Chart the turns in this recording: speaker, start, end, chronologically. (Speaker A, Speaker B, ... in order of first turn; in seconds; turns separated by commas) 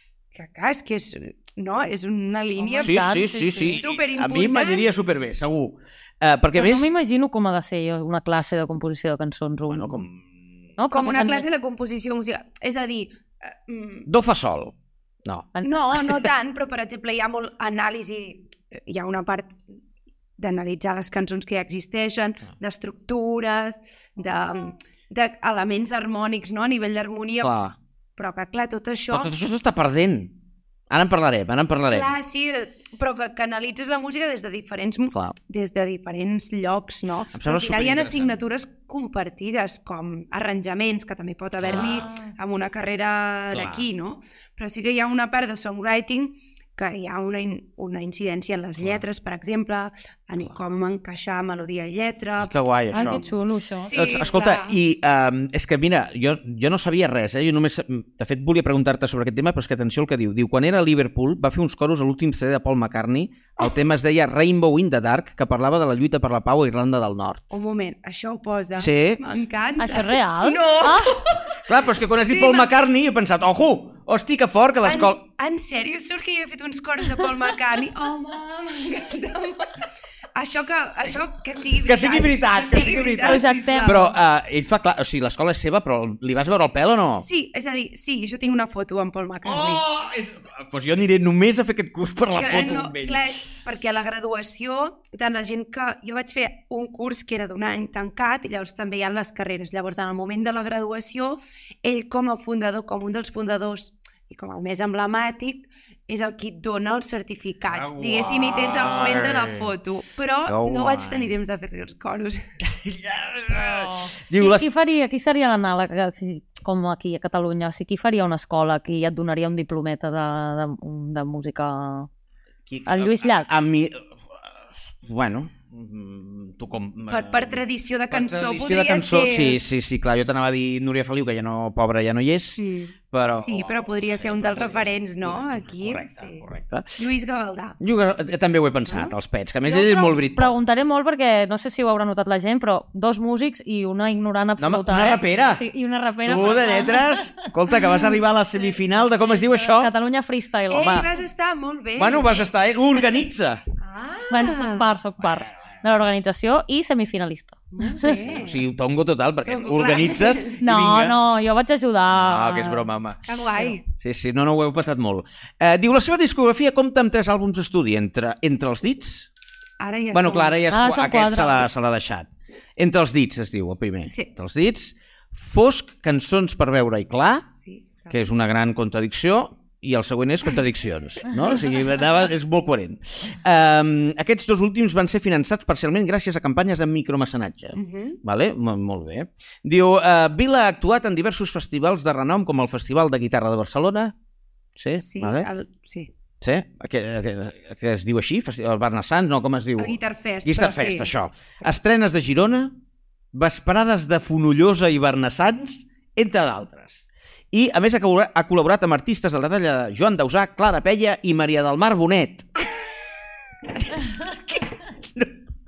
Speaker A: 0.3-4.9, Speaker B: 2.6-3.8, Speaker C: 2.8-6.9, Speaker B: 6.5-10.0, Speaker C: 9.7-10.3, Speaker B: 10.8-11.4, Speaker A: 10.9-14.1, Speaker C: 14.1-16.1, Speaker A: 15.6-19.6, Speaker A: 20.4-27.5, Speaker C: 27.4-27.7, Speaker A: 28.2-29.3, Speaker C: 29.1-30.4, Speaker C: 30.9-32.1, Speaker A: 31.9-54.8, Speaker C: 37.3-38.4, Speaker C: 41.6-42.1, Speaker C: 43.5-43.9, Speaker C: 52.4-53.3, Speaker B: 52.9-54.0, Speaker C: 53.9-67.4, Speaker A: 67.5-71.7, Speaker C: 68.8-69.2, Speaker B: 69.8-71.2, Speaker C: 71.6-75.2, Speaker A: 72.2-72.7, Speaker A: 74.8-84.1, Speaker C: 81.8-87.3, Speaker B: 83.2-84.0, Speaker A: 87.2-89.8, Speaker C: 89.4-93.2, Speaker A: 92.3-112.4, Speaker C: 107.7-109.6, Speaker C: 110.5-111.3, Speaker C: 112.6-114.7, Speaker B: 113.5-122.1, Speaker C: 122.7-124.1, Speaker B: 122.8-123.5, Speaker C: 124.7-137.0, Speaker A: 127.1-129.6, Speaker A: 132.6-136.4, Speaker A: 137.0-137.8, Speaker C: 137.8-140.5, Speaker A: 138.9-139.1, Speaker B: 139.7-147.5, Speaker C: 144.6-145.6, Speaker C: 146.2-149.9, Speaker B: 149.5-150.9, Speaker A: 150.7-152.5, Speaker C: 150.7-151.1, Speaker C: 152.0-153.6, Speaker A: 153.8-154.9, Speaker B: 154.3-158.2, Speaker A: 157.8-158.6, Speaker C: 158.0-161.2, Speaker A: 159.4-160.6, Speaker B: 160.6-162.8, Speaker C: 162.1-163.3, Speaker A: 163.2-163.8, Speaker C: 163.9-169.3, Speaker A: 169.8-170.6, Speaker C: 170.1-177.4, Speaker B: 170.7-171.6, Speaker A: 177.6-178.2, Speaker C: 178.1-194.1, Speaker A: 187.7-188.2, Speaker C: 194.8-195.5, Speaker A: 194.9-196.1, Speaker C: 196.4-202.7, Speaker A: 199.8-201.1, Speaker C: 203.3-212.4, Speaker C: 214.0-215.3